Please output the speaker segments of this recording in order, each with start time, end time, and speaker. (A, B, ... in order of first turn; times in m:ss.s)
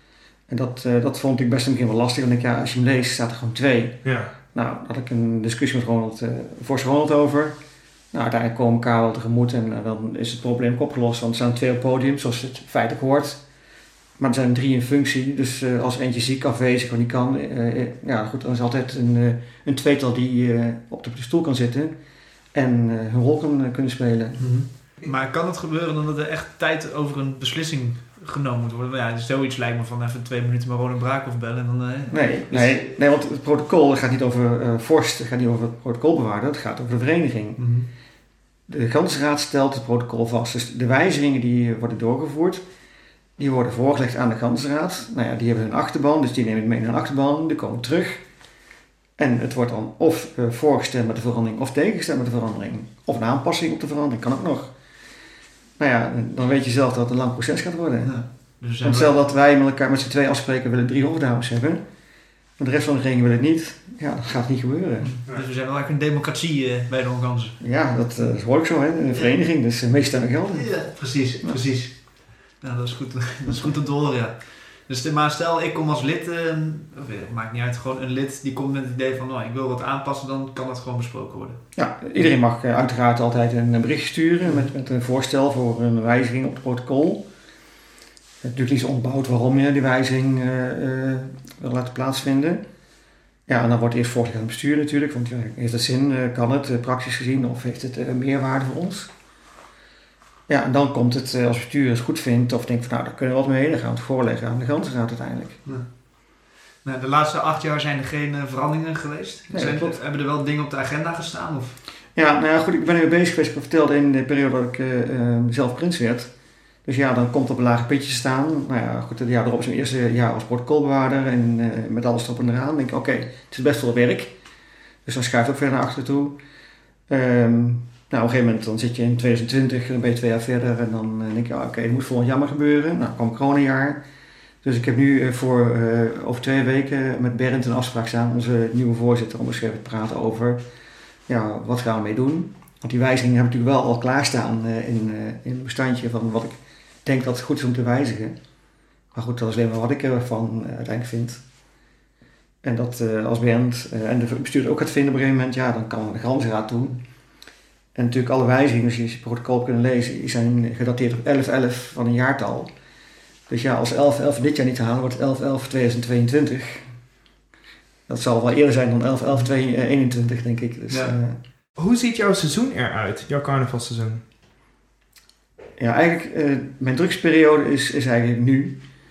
0:00.5-0:04.0 A
0:04.0-0:04.3 B
0:04.5-0:07.6 A
0:08.1-0:13.4 A
0:14.2-0:22.0 A
0:22.5-0:24.4 A
0:24.4-0:32.9 C
0:32.1-0:37.6 A
0:37.6-0:37.9 C
0:38.7-0:42.6 A
0:43.4-0:48.2 A
0:49.2-0:54.7 A
0:55.8-0:58.1 A
0:58.0-0:59.2 C
0:58.8-1:01.8 A
1:02.6-1:05.1 A
1:05.0-1:07.6 C
1:07.6-1:10.8 A
1:10.5-1:12.0 C
1:12.6-1:21.6 C
1:21.8-1:27.3 A
1:28.4-1:32.6 A
1:33.5-1:39.1 A
1:40.5-1:45.6 A
1:46.8-1:51.8 C
1:49.5-1:50.0 A
1:52.2-1:56.3 A
1:56.8-2:04.4 A
2:05.1-2:06.4 A
2:07.1-2:14.0 A
2:14.6-2:20.6 A
2:21.3-2:28.4 A
2:29.1-2:31.4 A
2:32.6-2:37.0 A
2:38.0-2:42.7 A
2:43.5-2:47.0 A
2:48.1-2:51.4 A
2:50.9-2:51.2 C
2:51.8-2:54.2 B
2:55.8-2:58.8 A